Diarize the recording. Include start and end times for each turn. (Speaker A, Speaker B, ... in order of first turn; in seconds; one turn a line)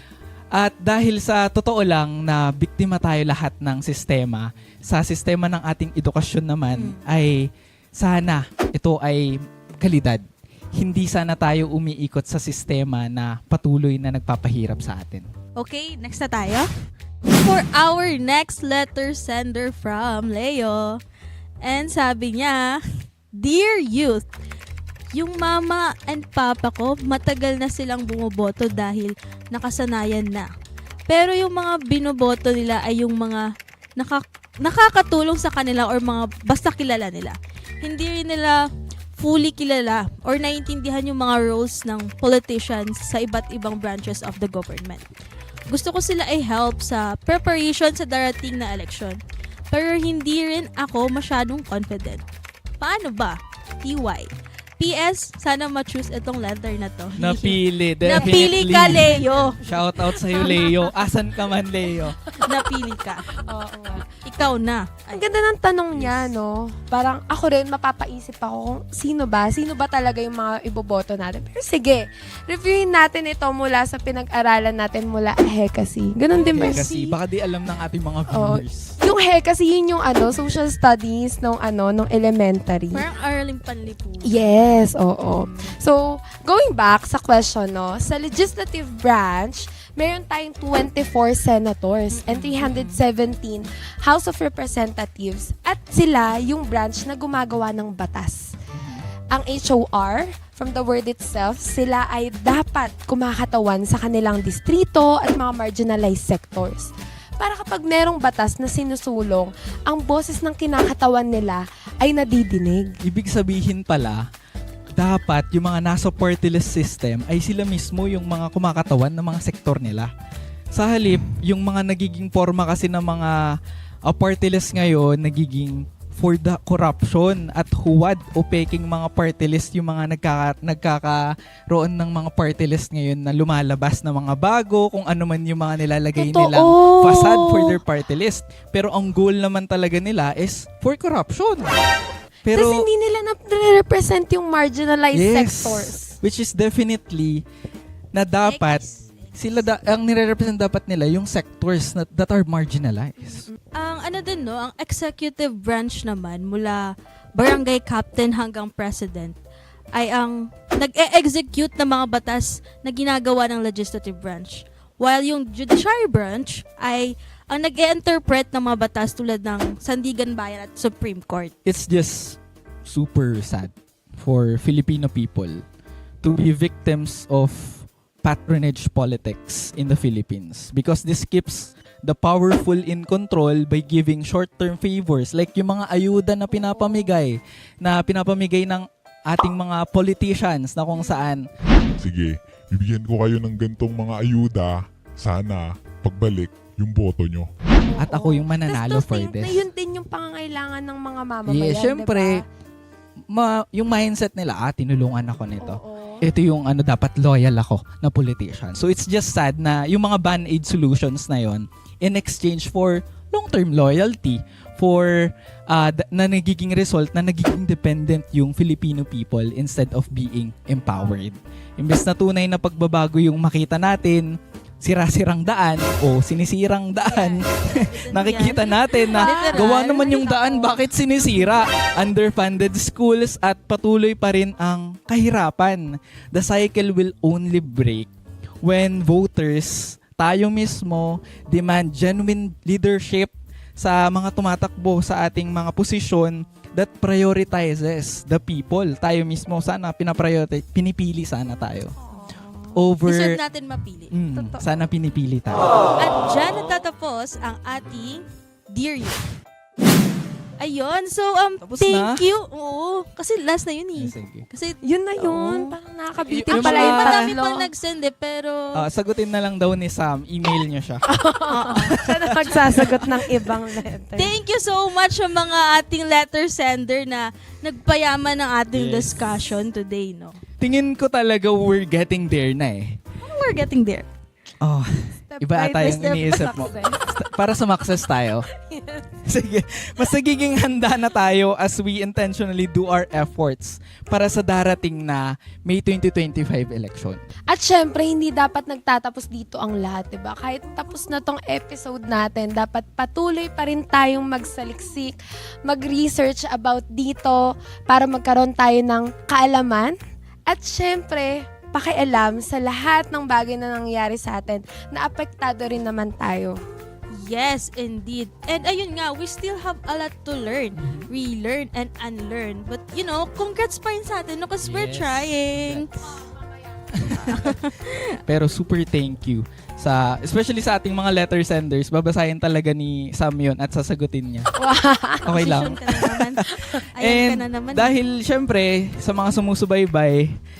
Speaker A: 0.5-15.3
Speaker B: 6.7-7.0
Speaker B: 15.6-16.7
Speaker B: 17.4-21.0
Speaker B: 21.6-22.8
Speaker B: 23.4-24.2
Speaker B: 25.1-30.5
Speaker B: 31.1-33.4
Speaker B: 34.0-38.6
Speaker B: 39.1-45.1
Speaker B: 45.7-49.2
Speaker B: 49.7-52.2
Speaker B: 52.8-54.3
Speaker B: 54.8-59.5
Speaker A: 57.2-59.0
Speaker C: 58.1-60.9
Speaker A: 59.6-62.2
Speaker B: 62.4-63.2
Speaker C: 63.4-64.1
Speaker B: 64.2-65.2
Speaker C: 65.1-77.2
Speaker A: 65.9-66.2
Speaker B: 76.4-76.8
Speaker A: 76.5-79.0
Speaker C: 78.3-83.0
Speaker B: 82.9-84.4
Speaker C: 84.2-98.5
Speaker B: 92.1-93.0
Speaker A: 98.7-99.0
Speaker C: 99.3-112.9
Speaker A: 113.0-114.2
Speaker A: 115.0-120.1
Speaker A: 120.7-123.4
Speaker A: 124.1-141.7
Speaker C: 136.2-137.8
Speaker A: 142.4-142.9
Speaker C: 142.5-146.2
Speaker A: 145.1-147.4
Speaker A: 148.1-153.5
Speaker B: 148.4-149.7
Speaker B: 153.7-156.8
Speaker B: 157.3-159.4
Speaker B: 159.9-171.5
Speaker A: 171.6-175.6
Speaker A: 176.2-191.4
Speaker C: 186.8-187.1
Speaker D: 192.0-197.5
Speaker C: 197.8-202.4
Speaker A: 198.0-199.7
Speaker A: 201.5-202.4
Speaker A: 203.3-224.3
Speaker C: 205.6-206.3
Speaker A: 224.8-238.1
Speaker B: 227.0-230.8
Speaker C: 229.2-229.7
Speaker A: 238.6-251.9
Speaker A: 252.7-253.4
Speaker B: 253.0-254.1
Speaker A: 254.1-255.7
Speaker B: 256.0-259.2
Speaker B: 260.6-265.8
Speaker A: 261.6-262.2
Speaker A: 263.9-264.4
Speaker C: 264.8-267.7
Speaker A: 266.3-267.3
Speaker B: 266.5-268.8
Speaker A: 268.7-271.0
Speaker C: 271.1-274.3
Speaker B: 271.5-272.0
Speaker A: 271.9-273.1
Speaker B: 274.1-280.4
Speaker A: 278.7-279.4
Speaker A: 280.6-283.0
Speaker B: 283.2-284.1
Speaker A: 284.6-288.4
Speaker C: 285.3-287.1
Speaker B: 285.7-286.5
Speaker C: 288.5-289.1
Speaker A: 289.2-297.2
Speaker C: 297.5-309.9
Speaker C: 310.5-316.6
Speaker B: 317.1-326.2
Speaker A: 320.8-321.1
Speaker A: 324.6-325.9
Speaker A: 326.9-327.5
Speaker B: 327.2-328.2
Speaker A: 328.3-334.5
Speaker C: 334.6-335.4
Speaker A: 335.2-340.3
Speaker B: 335.3-337.9
Speaker C: 336.5-336.8